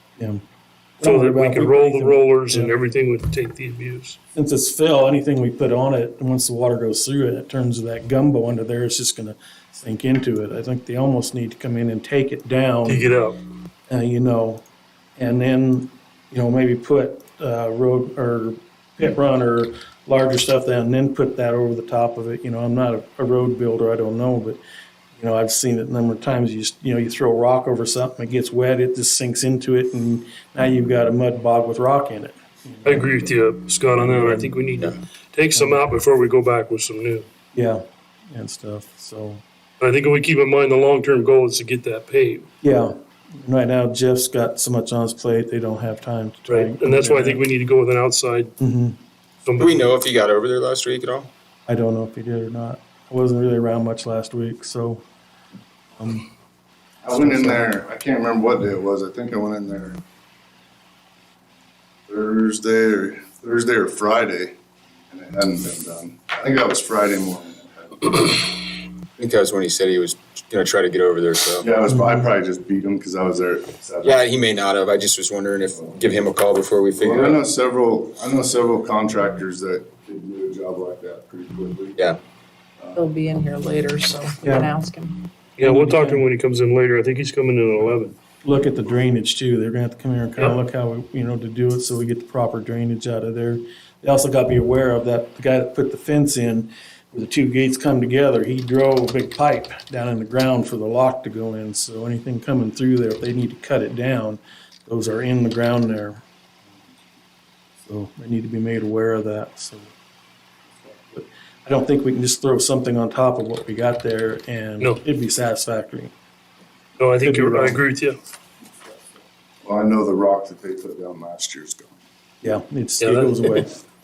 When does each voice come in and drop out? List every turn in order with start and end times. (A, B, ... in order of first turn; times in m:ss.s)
0:01.0-0:02.7 A
0:01.0-0:04.2 B
0:04.3-0:13.0 A
0:12.8-0:13.4 B
0:13.9-0:14.6 A
0:15.2-0:24.6 A
0:25.2-0:33.2 A
0:32.8-0:37.2 B
0:33.9-0:34.6 A
0:35.5-0:35.8 A
0:37.5-0:39.4 A
0:39.8-0:42.5 B
0:42.6-0:47.4 A
0:46.5-0:48.5 B
0:48.6-0:49.0 A
0:49.4-0:49.9 B
0:49.6-0:51.3 C
0:51.7-0:55.0 A
0:56.0-0:56.3 A
0:57.0-1:00.0 D
0:57.1-0:57.6 A
1:02.1-1:04.5 D
1:05.1-1:08.3 D
1:09.2-1:11.6 C
1:11.6-1:14.3 D
1:11.9-1:12.2 A
1:14.0-1:17.4 C
1:15.8-1:16.0 D
1:17.0-1:22.1 D
1:22.8-1:23.0 D
1:22.9-1:25.3 E
1:24.4-1:24.7 A
1:25.6-1:28.2 B
1:25.6-1:26.2 A
1:28.4-1:46.2 A
1:47.8-1:49.9 A
1:50.8-1:56.1 A
1:57.0-1:58.2 B
1:57.2-1:57.8 A
1:59.6-2:01.9 D
2:02.4-2:03.7 A
2:03.0-2:03.6 B